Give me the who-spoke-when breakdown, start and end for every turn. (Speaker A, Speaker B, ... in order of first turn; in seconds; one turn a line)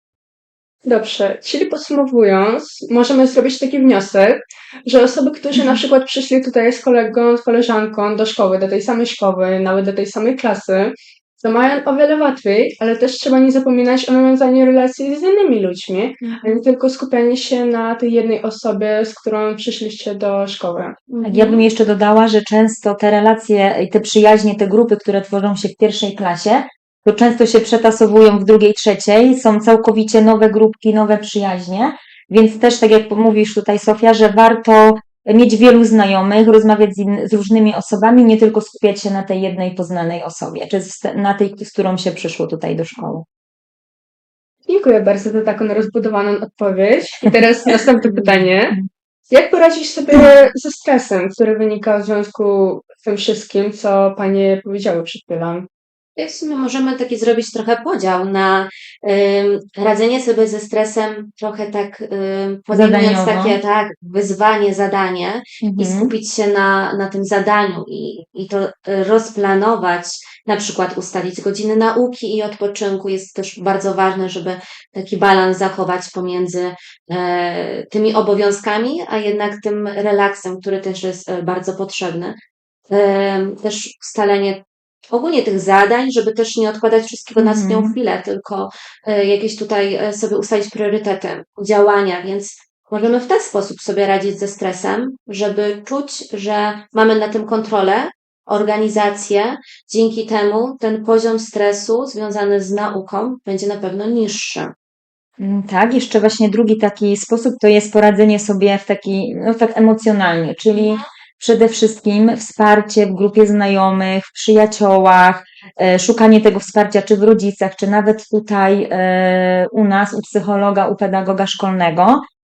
Speaker A: 0.8-20.9
Speaker B: 21.1-21.6
Speaker C: 21.2-43.2
Speaker A: 44.7-48.8
Speaker C: 48.0-48.9
Speaker A: 49.3-55.7
Speaker B: 56.2-82.4
Speaker C: 62.7-63.6
Speaker C: 65.6-66.1
Speaker B: 82.9-104.7
Speaker C: 87.4-87.9
Speaker C: 105.4-122.2
Speaker B: 110.7-111.0